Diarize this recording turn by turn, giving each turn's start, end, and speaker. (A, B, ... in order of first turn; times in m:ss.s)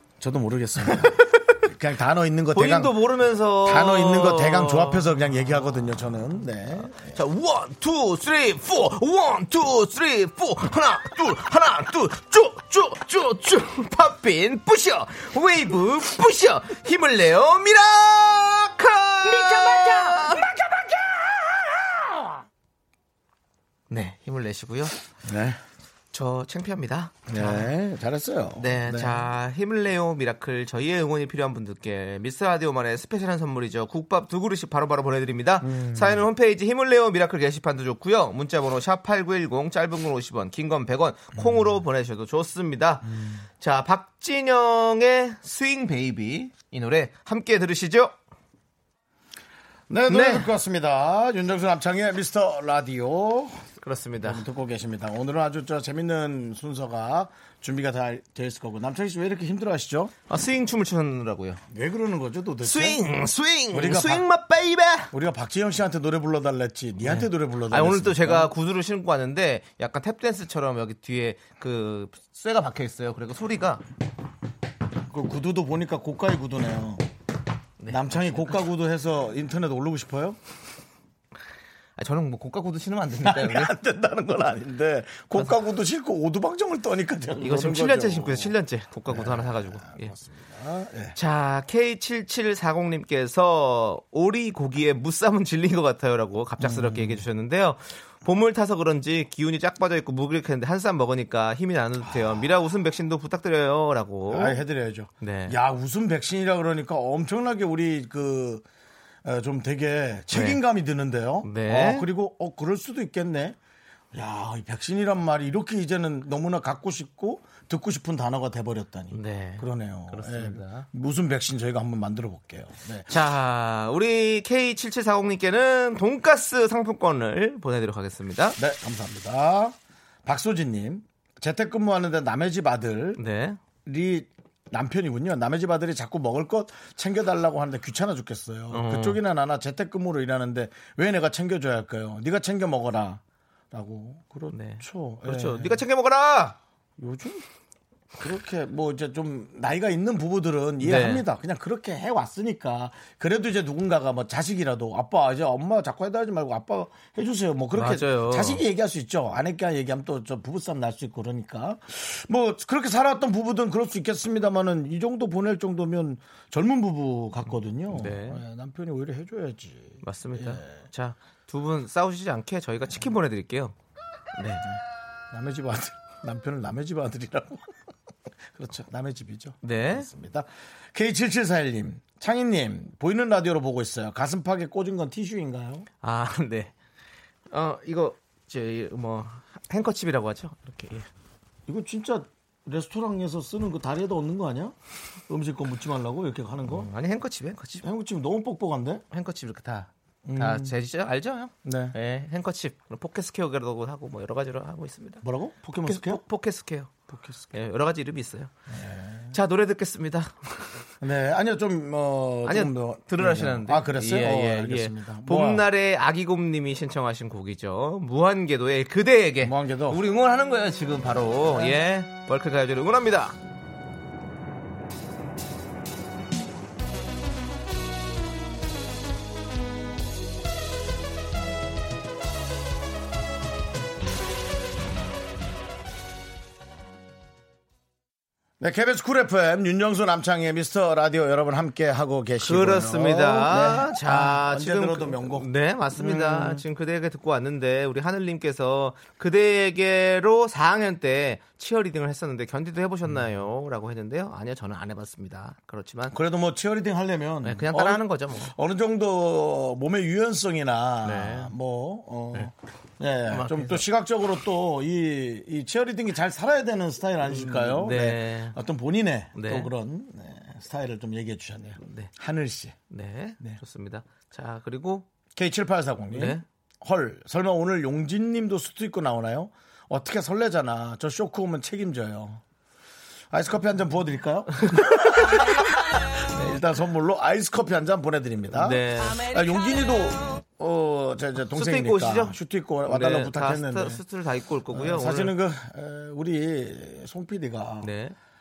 0:00.2-0:02.9 A
0:00.9-0:01.3 B
0:02.5-0:05.1 B
0:03.6-0:07.2 A
0:07.1-0:20.5 B
0:23.9-0:25.0 B
0:25.2-0:25.6 A
0:26.1-0:27.7 B
0:27.3-0:29.2 A
0:28.6-0:48.1 B
0:35.6-0:36.2 A
0:49.9-0:53.6 A
0:50.1-0:50.5 B
0:53.8-0:54.4 B
0:54.2-1:00.1 A
1:00.3-1:01.6 B
1:01.7-1:03.0 A
1:02.6-1:05.1 B
1:03.7-1:04.2 A
1:05.1-1:08.5 A
1:07.0-1:13.8 B
1:15.1-1:17.0 A
1:17.8-1:18.6 B
1:17.9-1:20.4 A
1:22.0-1:23.7 B
1:23.2-1:28.5 A
1:27.4-1:30.1 B
1:29.1-1:31.2 A
1:31.2-1:44.6 B
1:36.6-1:37.2 A
1:42.0-1:42.4 A
1:44.3-1:48.6 A
1:45.2-1:45.6 B
1:49.2-1:53.6 A
1:50.3-1:50.6 B
1:51.4-1:52.1 B
1:54.1-2:03.1 A
1:59.1-2:00.9 B
2:03.1-2:08.6 B
2:08.6-2:13.2 A
2:13.2-2:13.6 B
2:13.8-2:25.8 A
2:18.7-2:19.2 B
2:24.5-2:26.6 B
2:27.0-2:27.4 A
2:28.2-2:50.6 A
2:30.8-2:31.2 B
2:37.7-2:38.6 B
2:47.9-2:48.4 B
2:50.0-2:53.7 B
2:54.4-2:54.6 B
2:55.3-2:57.7 A
2:58.6-3:05.9 A
2:59.6-3:00.1 B
3:06.0-3:06.7 B
3:07.5-3:11.1 B
3:11.7-3:14.8 A
3:15.3-3:16.9 A
3:16.7-3:17.8 B
3:17.8-3:19.0 A
3:19.1-3:25.2 B
3:20.2-3:20.7 A
3:21.6-3:22.0 A
3:25.2-3:26.2 A
3:25.8-3:28.5 B
3:27.1-3:27.5 A
3:28.7-3:29.4 A
3:29.3-3:30.7 B
3:31.0-3:35.6 A
3:32.4-3:43.4 B
3:39.4-3:40.0 A
3:58.6-4:06.6 A
4:02.4-4:16.2 B
4:16.1-4:32.8 A
4:17.4-4:18.5 B
4:21.0-4:21.5 B
4:23.3-4:23.8 B
4:27.4-4:28.6 B
4:29.4-4:29.7 B
4:31.8-4:32.1 B
4:32.9-4:35.1 B
4:35.4-4:42.4 A
4:36.1-4:36.4 B
4:43.3-4:45.7 A
4:46.2-4:54.0 A
4:48.5-4:49.3 B
4:51.5-4:55.3 B
4:54.7-4:57.9 A
4:57.8-4:58.2 B